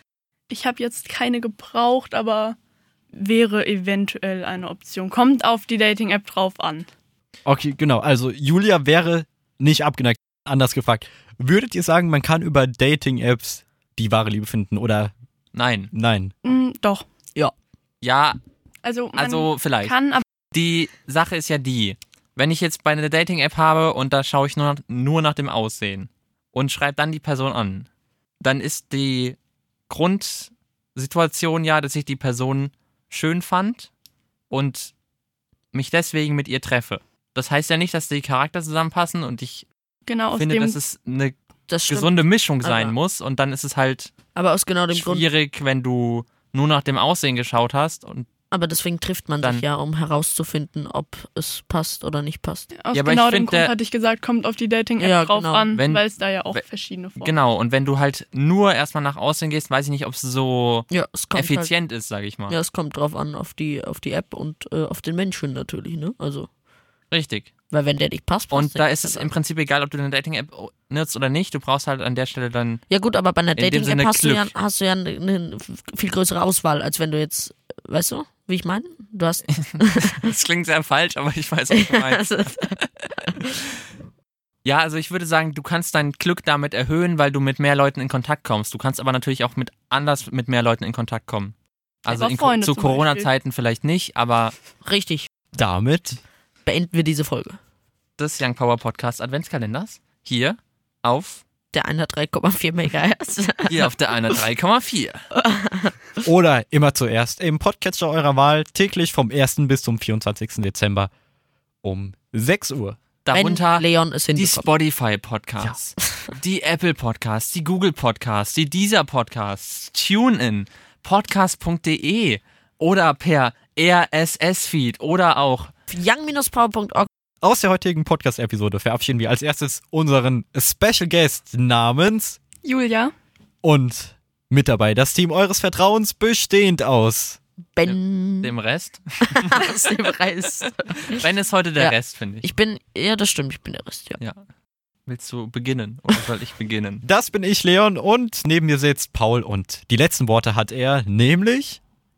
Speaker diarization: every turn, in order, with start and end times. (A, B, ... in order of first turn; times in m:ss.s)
0:00.5-0:02.6 A
0:03.1-0:06.9 A
0:07.5-0:15.1 B
0:15.5-0:15.9 C
0:15.9-0:16.3 B
0:16.4-0:17.0 A
0:18.0-0:18.4 C
0:18.8-0:20.2 A
0:19.2-0:20.0 C
0:20.5-0:27.9 C
0:28.4-0:29.4 C
0:29.9-0:33.9 C
0:34.5-0:34.9 C
0:35.7-0:39.7 C
0:40.1-0:40.8 A
0:40.4-0:41.4 C
0:41.7-0:43.0 D
0:41.9-0:44.1 C
0:44.4-0:45.3 D
0:44.9-0:48.3 C
0:48.5-0:52.7 D
0:52.8-0:57.3 A
0:52.9-0:53.7 C
0:55.0-0:55.7 D
0:55.8-0:56.6 C
0:57.2-1:02.6 C
1:00.9-1:01.7 D
1:02.5-1:06.5 D
1:07.1-1:07.5 C
1:07.7-1:09.3 D
1:08.5-1:12.8 C
1:12.9-1:20.3 D
1:13.6-1:14.5 C
1:19.6-1:23.6 C
1:21.7-1:23.5 D
1:24.6-1:31.5 C
1:32.1-1:34.5 C
1:32.1-1:33.3 A
1:34.8-1:35.3 D
1:35.6-1:36.2 B
1:36.6-1:37.6 D
1:38.2-1:41.4 C
1:41.7-1:44.0 D
1:43.7-1:45.2 C
1:45.4-1:46.0 D
1:46.2-1:51.1 B
1:51.8-1:53.0 B
1:53.2-2:05.7 C
1:53.3-1:54.7 D
2:05.9-2:07.1 D
2:07.4-2:12.4 B
2:12.6-2:13.1 A
2:13.6-2:17.4 B
2:17.8-2:18.5 D
2:17.8-2:19.6 C
2:19.3-2:21.2 D
2:21.1-2:22.5 C
2:21.8-2:24.2 D
2:25.1-2:27.0 C
2:27.0-2:31.8 B